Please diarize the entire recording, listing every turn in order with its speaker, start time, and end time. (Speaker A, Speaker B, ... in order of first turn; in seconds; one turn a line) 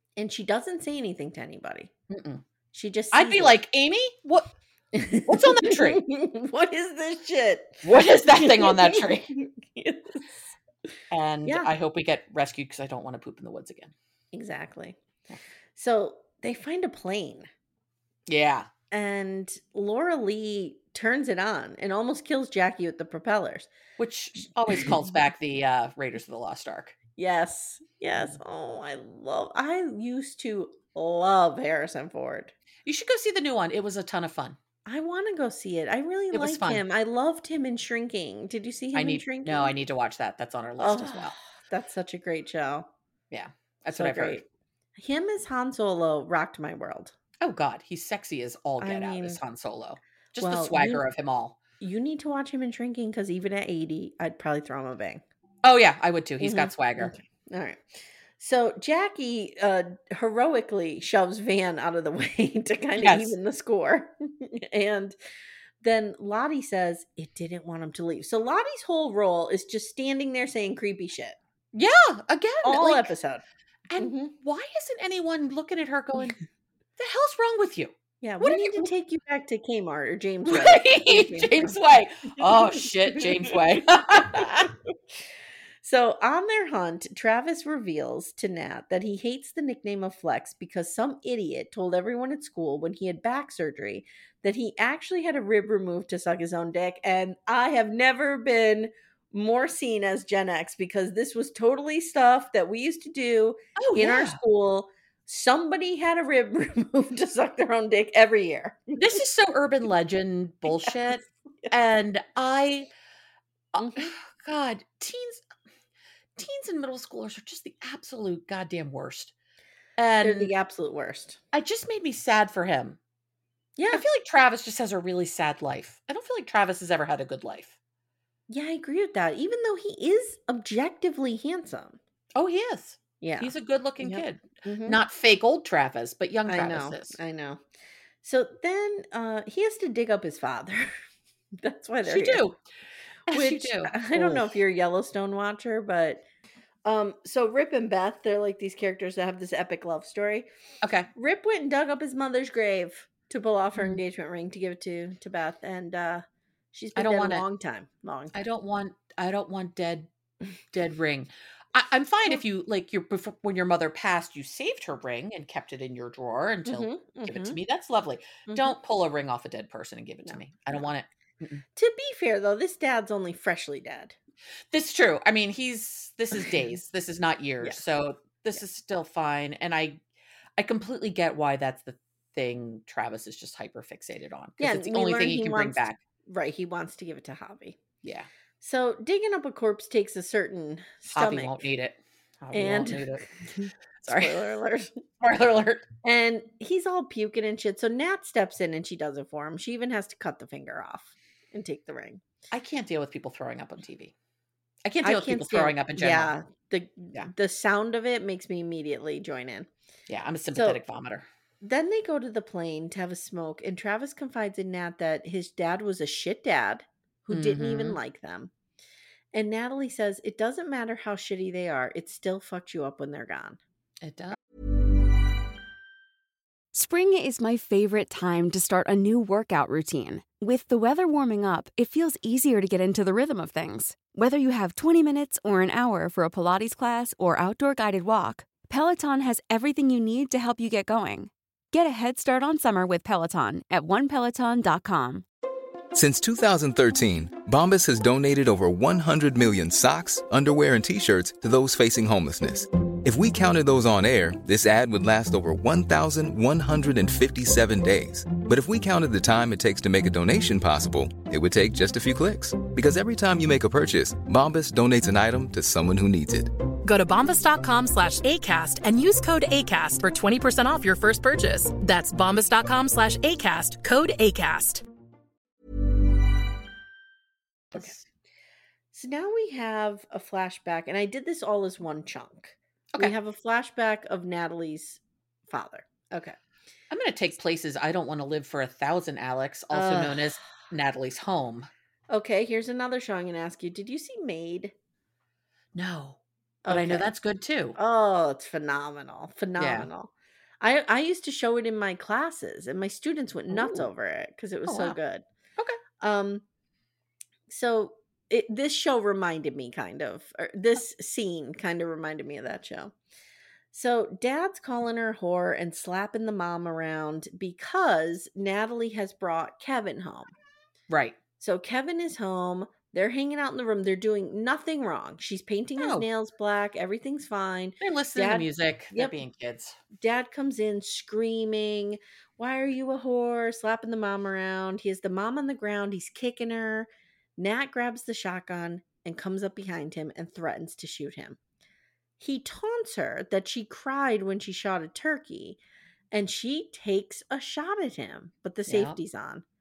Speaker A: 0.2-1.9
Speaker B: 2.1-2.4
Speaker A: 2.7-3.6
Speaker B: 3.1-4.5
Speaker A: 4.9-10.3
Speaker B: 5.2-6.0
Speaker B: 7.8-9.3
Speaker B: 11.1-13.9
Speaker A: 11.4-11.7
Speaker A: 14.3-15.0
Speaker A: 15.8-17.5
Speaker B: 18.3-18.7
Speaker A: 18.9-23.7
Speaker B: 24.0-26.9
Speaker A: 27.2-32.5
Speaker B: 32.8-34.6
Speaker A: 34.9-39.7
Speaker B: 36.3-36.8
Speaker B: 38.9-41.4
Speaker A: 40.8-42.9
Speaker B: 43.3-44.4
Speaker A: 43.9-44.4
Speaker A: 45.0-47.1
Speaker B: 47.4-51.6
Speaker A: 48.8-49.4
Speaker A: 50.4-51.0
Speaker A: 51.8-55.2
Speaker B: 55.6-57.1
Speaker A: 56.4-57.8
Speaker A: 58.4-65.2
Speaker B: 63.0-63.4
Speaker A: 65.8-71.4
Speaker B: 71.7-73.1
Speaker A: 72.6-73.4
Speaker B: 73.9-76.4
Speaker A: 74.0-74.3
Speaker B: 77.0-78.9
Speaker A: 78.2-81.8
Speaker B: 80.4-84.7
Speaker A: 83.1-83.5
Speaker A: 84.2-84.6
Speaker A: 85.8-109.1
Speaker B: 103.8-104.4
Speaker B: 108.9-112.9
Speaker B: 113.7-115.4
Speaker A: 113.8-114.1
Speaker B: 116.3-119.3
Speaker B: 120.0-120.5
Speaker A: 120.2-121.4
Speaker B: 121.5-123.0
Speaker A: 123.8-124.0
Speaker B: 123.9-127.8
Speaker A: 128.5-132.0
Speaker B: 132.3-137.2
Speaker A: 133.2-135.0
Speaker A: 136.5-137.6
Speaker A: 138.2-140.9
Speaker A: 141.6-142.4
Speaker B: 142.0-142.6
Speaker B: 143.3-144.5
Speaker A: 143.3-146.2
Speaker A: 146.8-150.5
Speaker B: 150.8-151.1
Speaker A: 151.1-158.3
Speaker B: 156.9-157.4
Speaker B: 158.3-160.1
Speaker B: 160.7-171.6
Speaker A: 166.7-167.6
Speaker A: 168.5-168.7
Speaker A: 171.8-174.2
Speaker B: 174.7-180.0
Speaker B: 180.6-186.0
Speaker A: 184.6-187.8
Speaker B: 188.0-188.3
Speaker A: 188.6-191.6
Speaker B: 191.1-193.2
Speaker A: 192.5-195.0
Speaker B: 194.0-194.4
Speaker B: 195.2-195.9
Speaker A: 196.0-202.2
Speaker B: 202.5-204.1
Speaker B: 204.8-206.3
Speaker A: 205.0-209.7
Speaker B: 210.1-211.2
Speaker A: 210.5-210.8
Speaker A: 211.6-218.5
Speaker B: 217.3-218.0
Speaker A: 219.3-223.6
Speaker B: 224.0-224.4
Speaker C: 226.7-245.2
Speaker D: 245.9-266.5
Speaker E: 266.8-274.8
Speaker B: 277.7-278.0
Speaker A: 278.9-286.4
Speaker B: 286.9-291.7
Speaker A: 289.7-290.4
Speaker A: 292.1-294.7
Speaker B: 295.7-297.8
Speaker A: 296.6-297.1
Speaker A: 297.8-300.1
Speaker B: 299.6-299.9
Speaker A: 300.6-305.2
Speaker B: 303.5-303.9
Speaker B: 304.7-305.0
Speaker A: 306.0-306.4
Speaker A: 307.5-312.9
Speaker A: 313.7-320.3
Speaker B: 320.9-321.2
Speaker A: 321.4-329.2
Speaker B: 325.8-326.1
Speaker B: 327.8-329.8
Speaker A: 330.0-341.4
Speaker A: 342.2-345.6
Speaker A: 346.1-349.4
Speaker B: 348.7-349.0